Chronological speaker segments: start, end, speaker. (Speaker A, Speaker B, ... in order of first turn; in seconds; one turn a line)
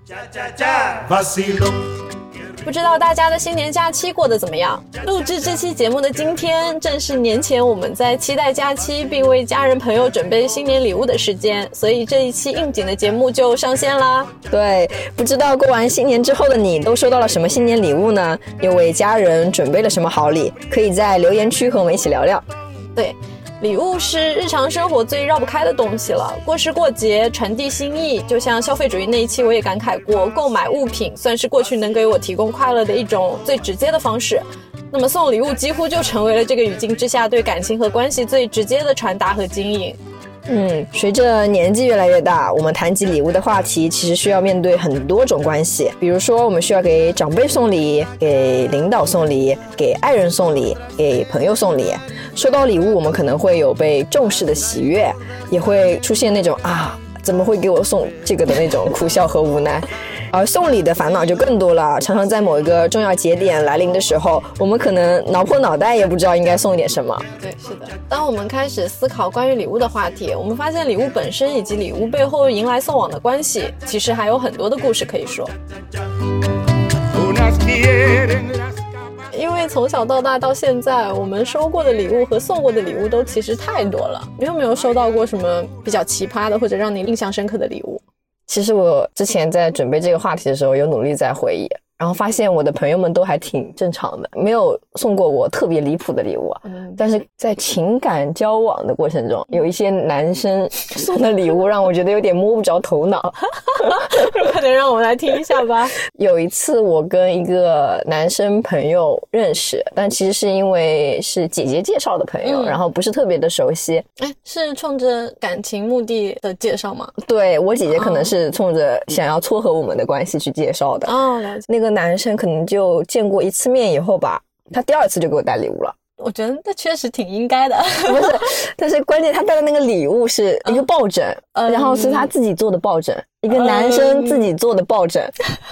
Speaker A: 0.2-1.8
Speaker B: 2.6-14.3
Speaker C: 14.5-22.4
Speaker B: 22.9-40.0
Speaker C: 40.5-67.2
Speaker B: 67.4-75.5
Speaker A: 77.1-78.7
Speaker B: 79.3-88.0
Speaker C: 88.5-104.3
Speaker B: 96.7-97.0
Speaker B: 103.7-106.0
Speaker C: 106.1-114.0
Speaker B: 112.4-112.8
Speaker B: 114.2-117.2
Speaker C: 117.2-121.1
Speaker B: 117.9-118.3
Speaker B: 121.1-121.7
Speaker C: 121.7-125.9
Speaker B: 126.2-128.5
Speaker C: 128.1-135.3
Speaker B: 131.6-132.3
Speaker B: 133.5-134.5